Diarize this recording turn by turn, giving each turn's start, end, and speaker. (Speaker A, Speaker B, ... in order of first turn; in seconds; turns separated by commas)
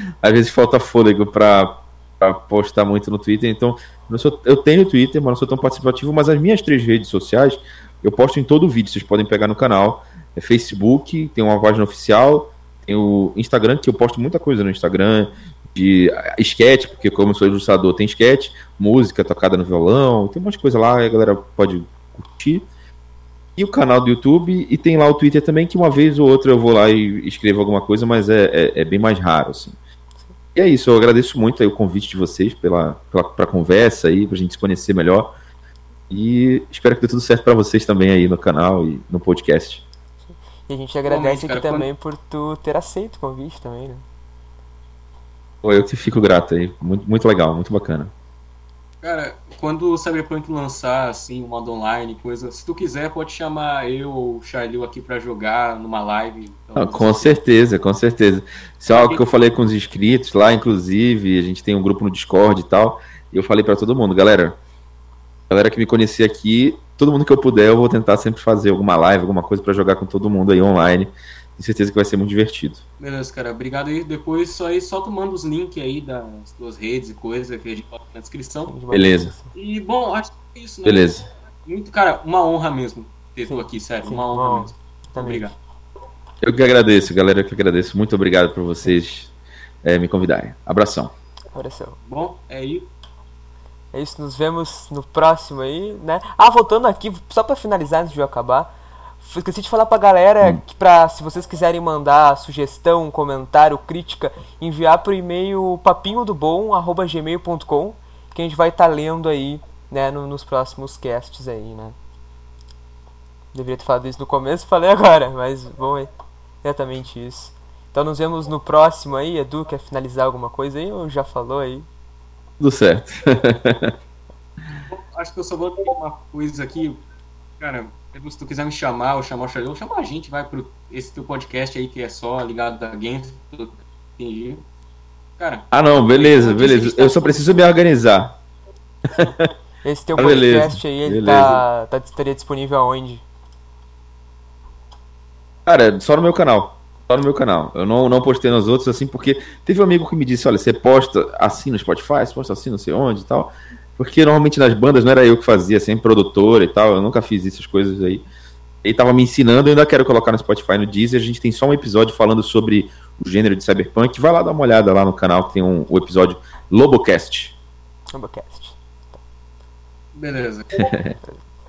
Speaker A: 0.2-22.6, Speaker A: 23.6-29.8, Speaker A: 30.5-35.3, Speaker A: 36.1-39.8, Speaker B: 40.7-44.0, Speaker C: 41.0-41.9, Speaker A: 45.6-48.1, Speaker C: 49.0-57.4, Speaker A: 56.7-64.6, Speaker C: 58.9-59.2, Speaker A: 65.5-72.8, Speaker C: 73.0-78.7, Speaker B: 78.7-79.5, Speaker A: 78.9-79.3, Speaker C: 79.5-81.1, Speaker A: 80.8-81.2, Speaker C: 81.6-85.5, Speaker B: 83.5-85.5, Speaker A: 86.4-89.3, Speaker A: 89.8-91.1, Speaker B: 91.5-92.0, Speaker C: 92.0-92.9, Speaker B: 93.9-112.0, Speaker B: 113.5-116.1, Speaker B: 116.6-121.9, Speaker A: 122.6-123.9, Speaker C: 124.9-127.0, Speaker C: 127.6-134.6, Speaker C: 135.4-137.6, Speaker A: 135.7-138.3, Speaker A: 139.1-139.5, Speaker B: 139.8-143.2, Speaker A: 140.2-141.6, Speaker A: 145.7-158.2, Speaker A: 158.8-167.5, Speaker B: 168.1-168.8, Speaker C: 170.1-170.7, Speaker A: 170.7-171.2